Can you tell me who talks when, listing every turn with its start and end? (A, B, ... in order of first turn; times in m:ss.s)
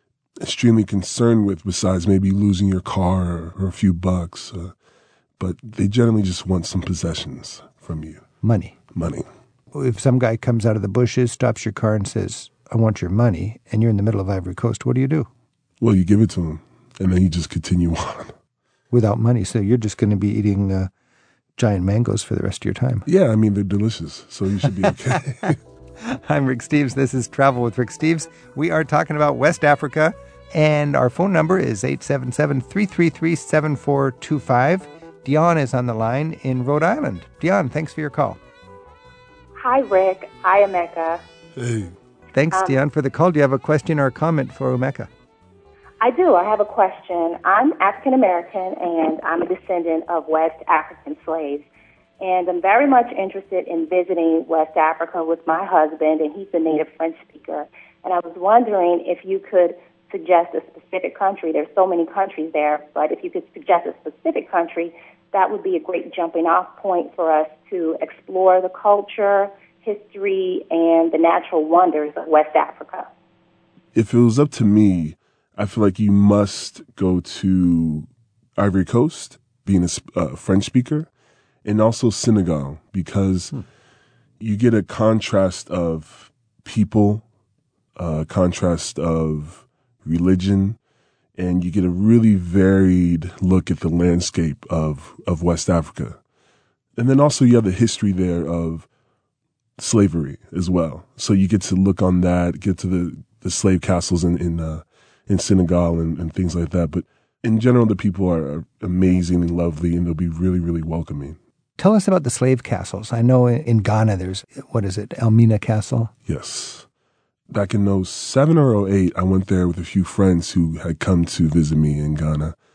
0:00.4-0:04.7 A
0:05.4-0:08.3 A
0:08.4-0:08.8 B
0:08.9-0:09.3 A
0:09.7-0:15.3 B
0:15.8-0:18.3 A
0:18.9-0:20.9 B
0:21.6-0:23.1 B
0:23.1-0:25.6 A
0:24.6-0:38.4 B
0:39.6-0:41.2 C
0:41.6-0:42.0 A
0:42.3-0:45.1 B
0:46.0-0:51.7 C
0:52.2-1:13.1 C
1:14.0-1:21.1 A
1:21.6-1:23.6 A
1:24.4-1:27.2 A
1:28.0-1:30.8 A
1:31.4-1:36.2 A
1:37.0-1:38.9 A
1:39.8-1:51.4 A
1:51.8-1:56.1 B
1:56.3-1:56.9 A
1:57.5-2:02.6 A